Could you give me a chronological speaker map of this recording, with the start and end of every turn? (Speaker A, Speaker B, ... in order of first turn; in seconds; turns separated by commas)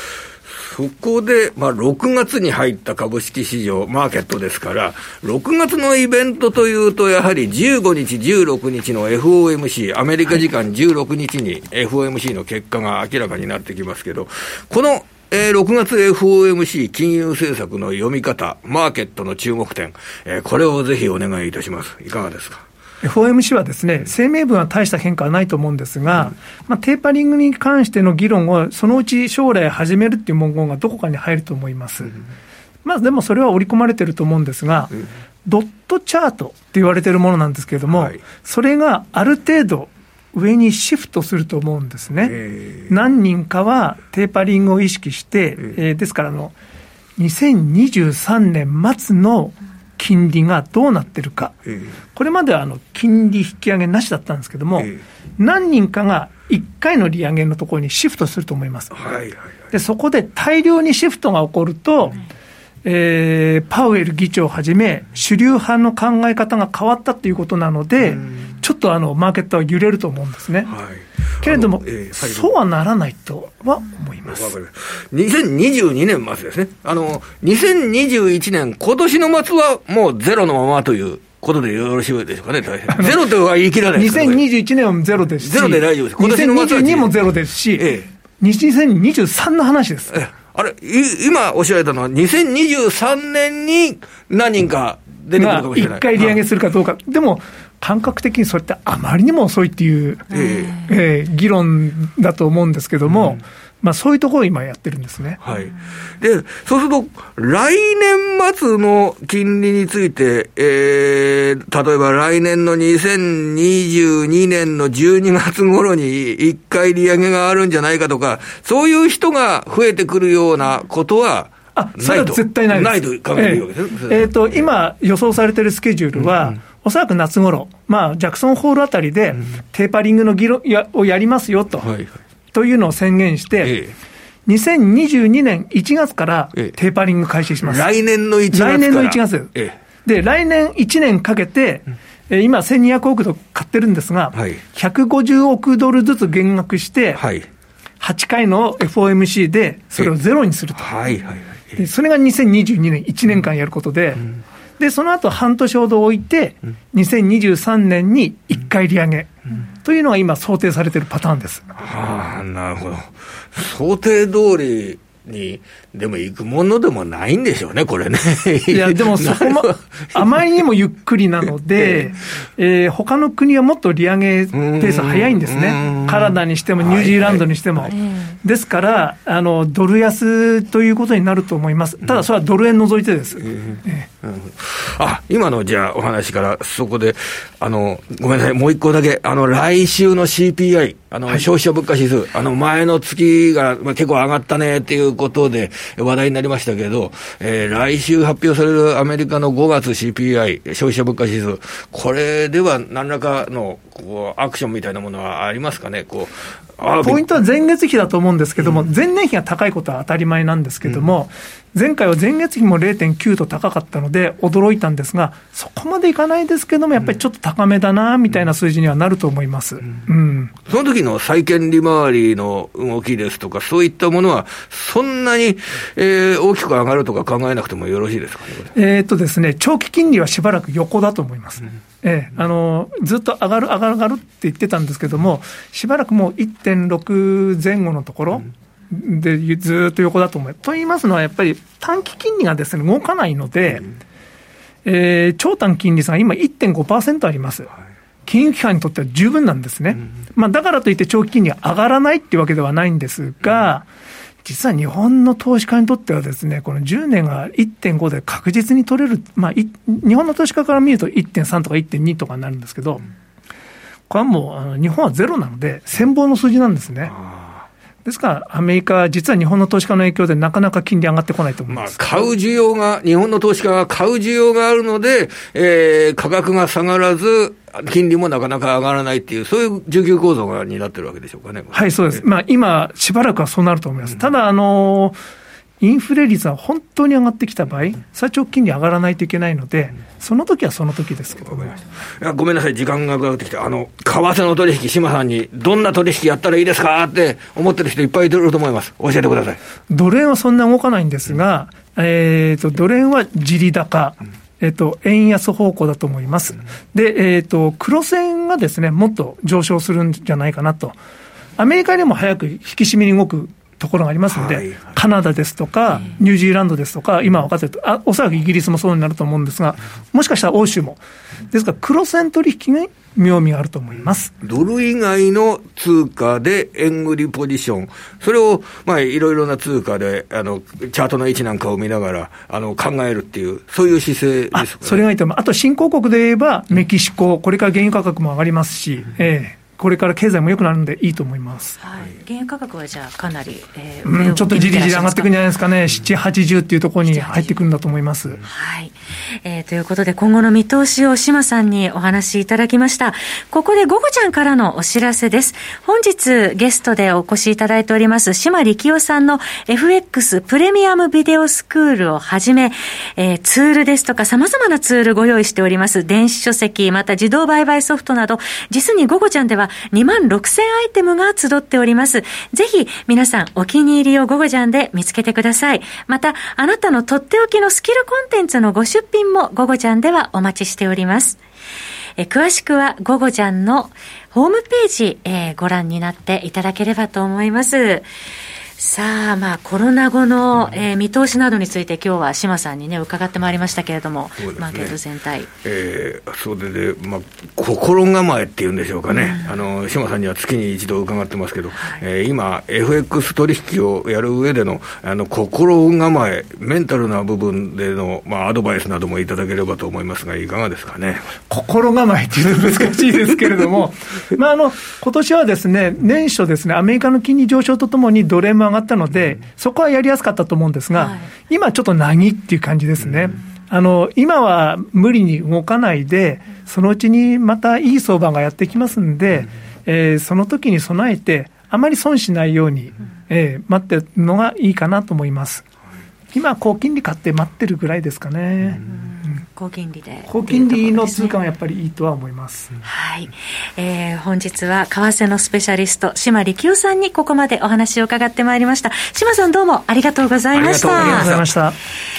Speaker A: 0.5-22.6, Speaker B: 23.0-32.1, Speaker B: 32.8-46.5, Speaker A: 37.9-38.2, Speaker A: 42.4-42.9, Speaker B: 47.2-51.6, Speaker B: 52.1-62.2, Speaker A: 59.0-59.4, Speaker B: 62.8-70.8, Speaker A: 70.7-72.5, Speaker B: 71.4-74.5, Speaker A: 74.3-84.4, Speaker B: 82.9-83.2, Speaker B: 83.9-90.3, Speaker A: 85.4-87.1, Speaker A: 87.8-88.1, Speaker A: 90.1-96.4, Speaker B: 95.4-105.4, Speaker A: 100.3-100.8, Speaker C: 100.4-100.9, Speaker A: 105.4-124.3, Speaker B: 121.8-131.9, Speaker A: 131.8-132.2, Speaker B: 132.5-133.8, Speaker A: 133.6-133.9, Speaker B: 134.5-137.9, Speaker A: 137.6-139.8, Speaker B: 138.5-139.5, Speaker B: 140.1-147.2, Speaker A: 144.3-144.6, Speaker A: 147.2-147.5, Speaker B: 148.0-150.9, Speaker A: 150.8-151.8, Speaker B: 151.8-154.2, Speaker B: 154.8-161.8, Speaker A: 161.8-170.1, Speaker B: 168.7-184.1, Speaker A: 174.5-177.4, Speaker A: 184.2-207.2, Speaker B: 207.0-220.5, Speaker A: 220.7-228.7, Speaker B: 228.8-243.9, Speaker B: 244.8-247.7, Speaker B: 248.3-253.9, Speaker B: 254.4-263.1, Speaker B: 264.1-267.1, Speaker A: 267.2-267.6, Speaker B: 268.1-272.2, Speaker A: 271.7-282.0, Speaker B: 281.7-285.2, Speaker B: 285.8-291.8, Speaker A: 292.2-299.6, Speaker B: 299.9-310.9, Speaker B: 311.6-324.3, Speaker A: 314.3-314.9, Speaker A: 324.4-335.0, Speaker B: 334.5-341.8, Speaker C: 341.8-345.3, Speaker B: 344.1-348.4, Speaker C: 347.1-347.5, Speaker C: 348.4-381.4, Speaker C: 382.2-388.1, Speaker C: 388.8-395.5, Speaker A: 394.4-394.9, Speaker A: 395.6-411.3, Speaker C: 399.1-399.5, Speaker B: 411.5-435.6, Speaker C: 420.9-421.3, Speaker B: 436.3-438.8, Speaker C: 438.9-441.4, Speaker B: 440.3-442.7, Speaker C: 442.9-451.4, Speaker A: 450.5-451.4, Speaker B: 450.9-451.8